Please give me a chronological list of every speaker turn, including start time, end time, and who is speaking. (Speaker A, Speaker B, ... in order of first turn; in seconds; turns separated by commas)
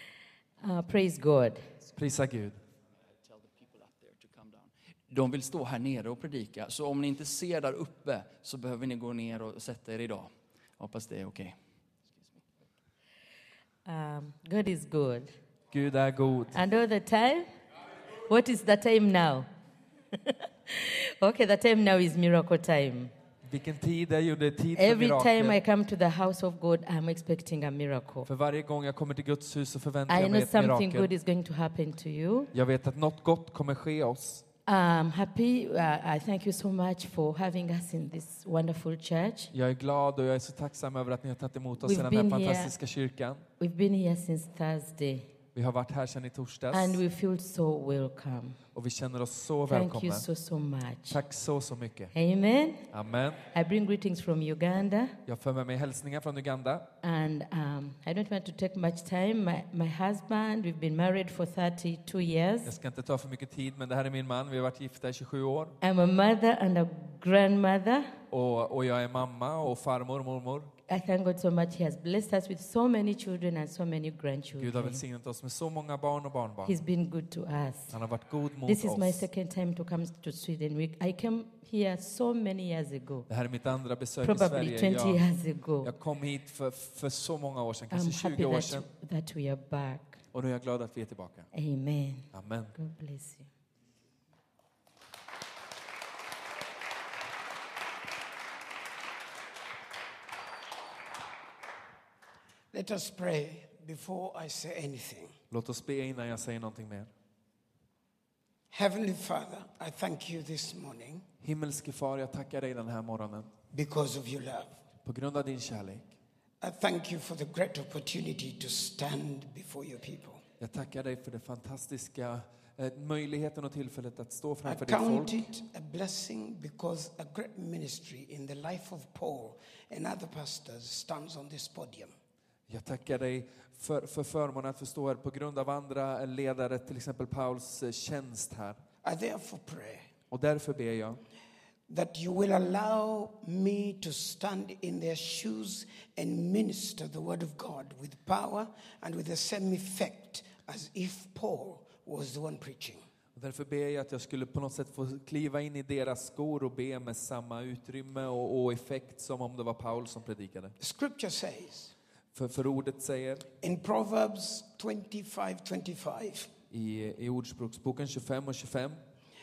Speaker A: 0.6-1.7, Speaker B: 1.9-2.6, Speaker C: 3.1-11.6, Speaker C: 12.1-12.4, Speaker A: 13.8-15.3, Speaker B: 15.7-16.6, Speaker A: 16.5-17.5, Speaker A: 18.2-19.5, Speaker A: 20.1-23.1, Speaker B: 23.4-25.6, Speaker A: 24.8-28.3, Speaker B: 28.2-31.1, Speaker A: 30.1-32.5, Speaker B: 32.5-34.4, Speaker A: 34.7-39.5, Speaker B: 39.5-43.5, Speaker A: 41.8-42.7, Speaker A: 43.6-45.2, Speaker B: 45.5-47.0, Speaker A: 46.7-48.6, Speaker B: 48.7-50.2, Speaker A: 49.7-51.2, Speaker B: 51.1-52.1, Speaker A: 52.1-52.8, Speaker B: 52.9-53.4, Speaker A: 53.5-55.1, Speaker B: 55.2-56.9, Speaker A: 57.0-62.7, Speaker B: 62.6-65.8, Speaker A: 65.8-68.1, Speaker B: 68.3-70.7, Speaker A: 70.9-75.0, Speaker B: 74.6-76.8, Speaker A: 76.6-77.9, Speaker B: 77.9-79.2, Speaker A: 78.7-83.2, Speaker B: 83.3-85.2, Speaker A: 84.2-85.9, Speaker B: 85.8-88.8, Speaker A: 87.9-90.2, Speaker B: 90.3-91.5, Speaker A: 91.5-93.5, Speaker B: 92.3-92.7, Speaker D: 102.7-105.3, Speaker B: 105.5-107.1, Speaker D: 108.7-111.2, Speaker B: 111.4-113.5, Speaker D: 113.7-114.8, Speaker B: 115.0-116.1, Speaker D: 116.6-120.4, Speaker B: 120.6-125.5, Speaker D: 124.7-132.1, Speaker B: 132.7-138.8, Speaker D: 139.0-140.1, Speaker B: 140.3-141.2, Speaker D: 141.9-153.0, Speaker B: 153.3-160.8, Speaker D: 160.8-161.9, Speaker B: 162.3-163.5, Speaker D: 163.6-166.5, Speaker B: 166.7-169.0